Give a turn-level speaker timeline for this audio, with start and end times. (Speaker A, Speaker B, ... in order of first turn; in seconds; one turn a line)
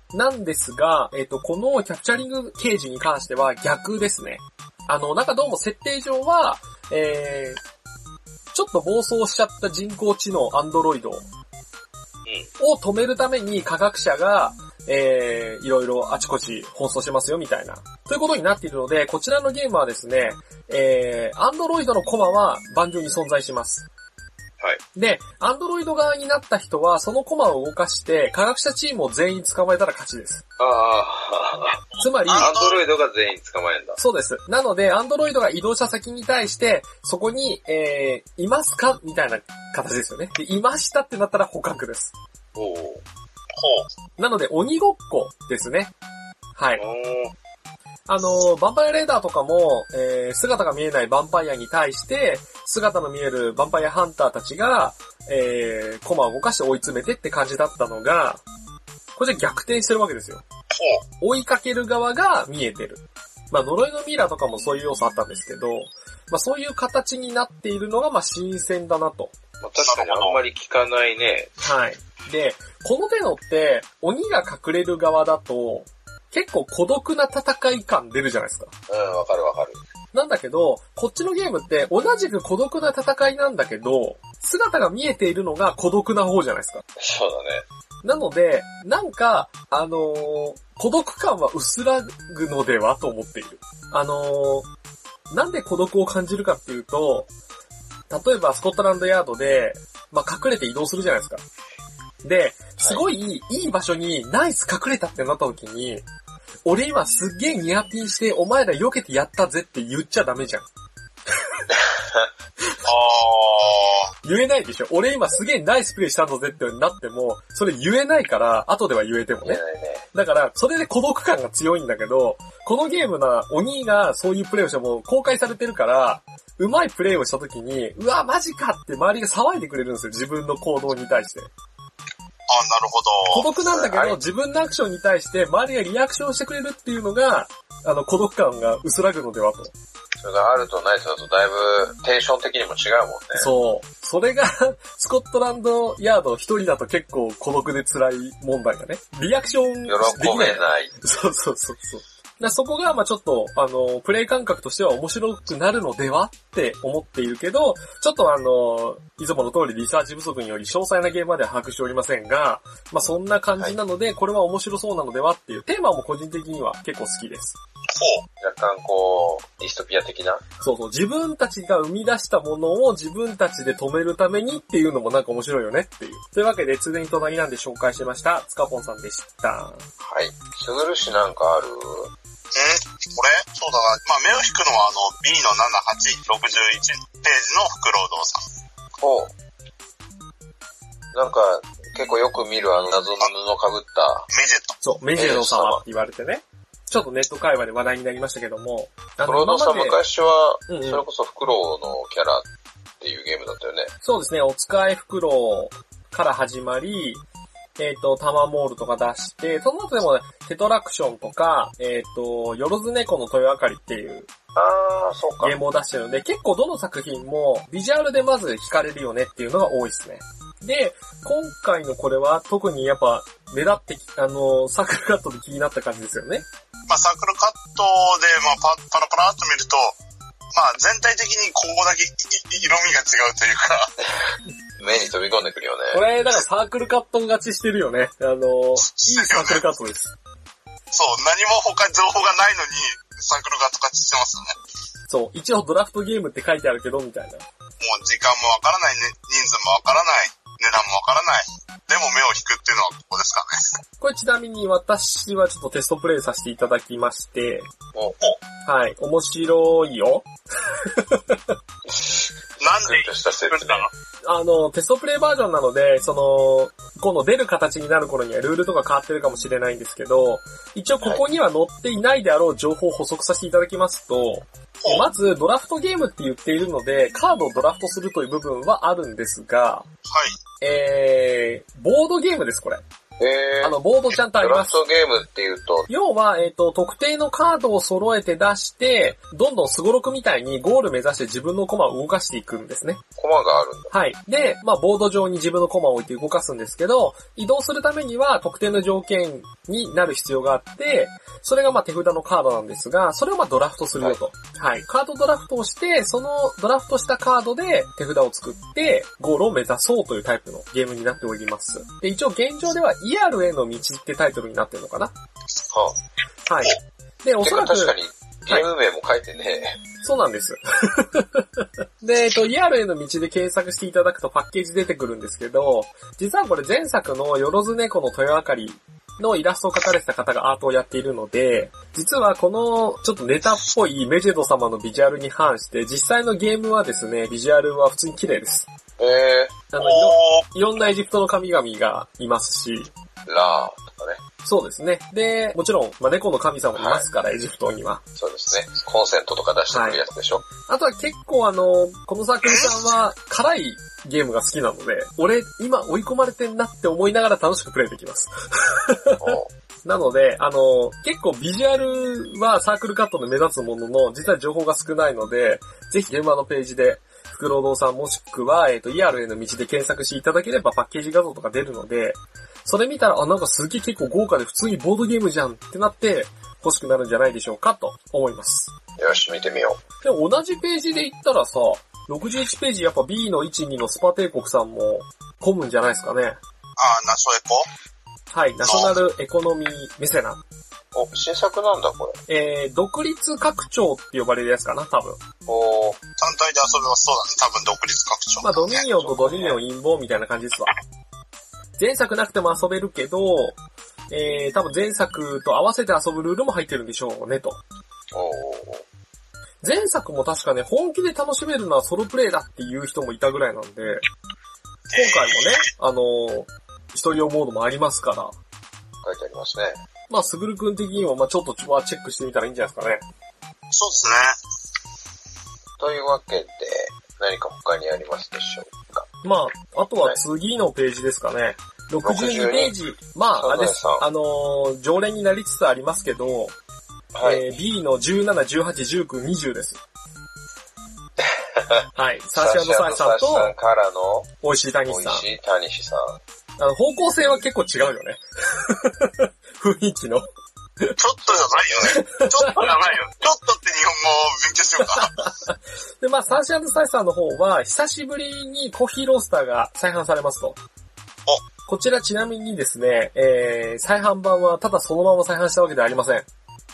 Speaker A: 0.1-7.6
Speaker A: 8.5-11.3
Speaker A: 12.6-23.9
Speaker A: 24.9-30.4
Speaker B: 30.6-34.0
Speaker A: 32.0-32.5
Speaker C: 32.2-32.8
Speaker A: 34.0-42.1
Speaker B: 42.5-43.0
Speaker C: 43.6-43.9
Speaker A: 44.2-45.9
Speaker A: 46.6-46.8
Speaker B: 46.8-47.3
Speaker A: 48.1-58.4
Speaker A: 59.2-60.4
Speaker C: 60.7-61.0
Speaker A: 61.2-69.3
Speaker B: 69.6-71.5
Speaker C: 69.8-70.4
Speaker A: 71.6-78.7
Speaker B: 78.9-79.8
Speaker A: 80.1-86.8
Speaker B: 87.0-87.6
Speaker A: 88.0-94.7
Speaker A: 95.3-97.3
Speaker A: 98.1-101.4
Speaker A: 102.2-106.0
Speaker A: 106.7-110.7
Speaker C: 112.8-114.1
Speaker A: 114.2-119.6
Speaker B: 119.4-120.0
Speaker A: 120.1-131.5
Speaker C: 132.5-133.4
Speaker A: 133.3-139.7
Speaker B: 133.7-134.2
Speaker B: 140.2-143.5
Speaker A: 143.4-167.6
Speaker B: 149.9-150.9
Speaker C: 167.9-168.2
Speaker B: 168.4-170.4
Speaker A: 170.6-179.8
Speaker B: 180.0-182.1
Speaker C: 182.5-188.4
Speaker B: 189.0-189.3
Speaker B: 191.1-194.3
Speaker C: 194.3-194.8
Speaker A: 194.8-200.0
Speaker B: 195.2-195.8
Speaker B: 199.2-202.5
Speaker A: 200.7-201.1
Speaker B: 203.0-203.9
Speaker A: 204.0-207.2
Speaker A: 207.8-214.3
Speaker B: 214.6-215.6
Speaker A: 215.4-226.5
Speaker C: 226.9-230.0
Speaker C: 230.5-233.9
Speaker B: 234.8-236.0
Speaker A: 235.9-240.1
Speaker C: 238.8-239.7
Speaker C: 240.9-244.5
Speaker A: 245.1-247.4
Speaker C: 247.8-253.7
Speaker A: 254.0-257.7
Speaker A: 258.7-261.5
Speaker B: 261.9-262.3
Speaker C: 262.6-263.9
Speaker B: 262.8-263.9
Speaker A: 264.2-279.9
Speaker C: 274.8-275.1
Speaker C: 280.1-280.4
Speaker A: 280.6-282.8
Speaker B: 283.2-283.8
Speaker A: 283.6-284.8
Speaker B: 284.3-285.9
Speaker A: 285.9-293.0
Speaker B: 293.2-293.9
Speaker A: 293.9-315.1
Speaker B: 315.7-316.0
Speaker A: 316.5-318.0
Speaker B: 317.4-319.8
Speaker A: 320.0-338.7
Speaker B: 339.0-339.6
Speaker A: 339.7-342.9
Speaker C: 339.8-340.4
Speaker B: 343.3-344.2
Speaker A: 344.4-348.0
Speaker B: 346.8-347.1
Speaker B: 348.2-350.4
Speaker A: 349.7-350.0
Speaker A: 350.7-378.7
Speaker C: 352.4-352.8
Speaker B: 359.2-359.5
Speaker B: 379.0-379.8
Speaker A: 380.0-386.4
Speaker C: 386.8-387.7
Speaker A: 388.3-390.4
Speaker C: 388.6-388.9
Speaker B: 390.9-392.2
Speaker A: 392.3-395.2
Speaker B: 395.5-396.0
Speaker C: 396.2-398.8
Speaker A: 398.4-400.8
Speaker B: 399.1-399.6
Speaker A: 401.8-403.6
Speaker A: 404.1-407.6
Speaker B: 408.1-408.8
Speaker A: 409.6-414.0
Speaker C: 414.9-415.7
Speaker A: 414.9-418.4
Speaker B: 419.0-419.8
Speaker A: 420.1-423.0
Speaker C: 423.7-424.4
Speaker B: 425.8-429.1
Speaker A: 429.2-436.5
Speaker B: 432.1-432.8
Speaker B: 433.4-434.1
Speaker B: 437.1-437.6
Speaker A: 437.2-439.8
Speaker B: 441.2-444.4
Speaker A: 441.9-443.5
Speaker A: 444.4-445.3
Speaker B: 444.9-446.2
Speaker A: 446.6-450.3
Speaker C: 451.0-455.1
Speaker B: 451.2-452.0
Speaker A: 451.9-452.7
Speaker A: 454.9-460.6
Speaker A: 461.7-466.3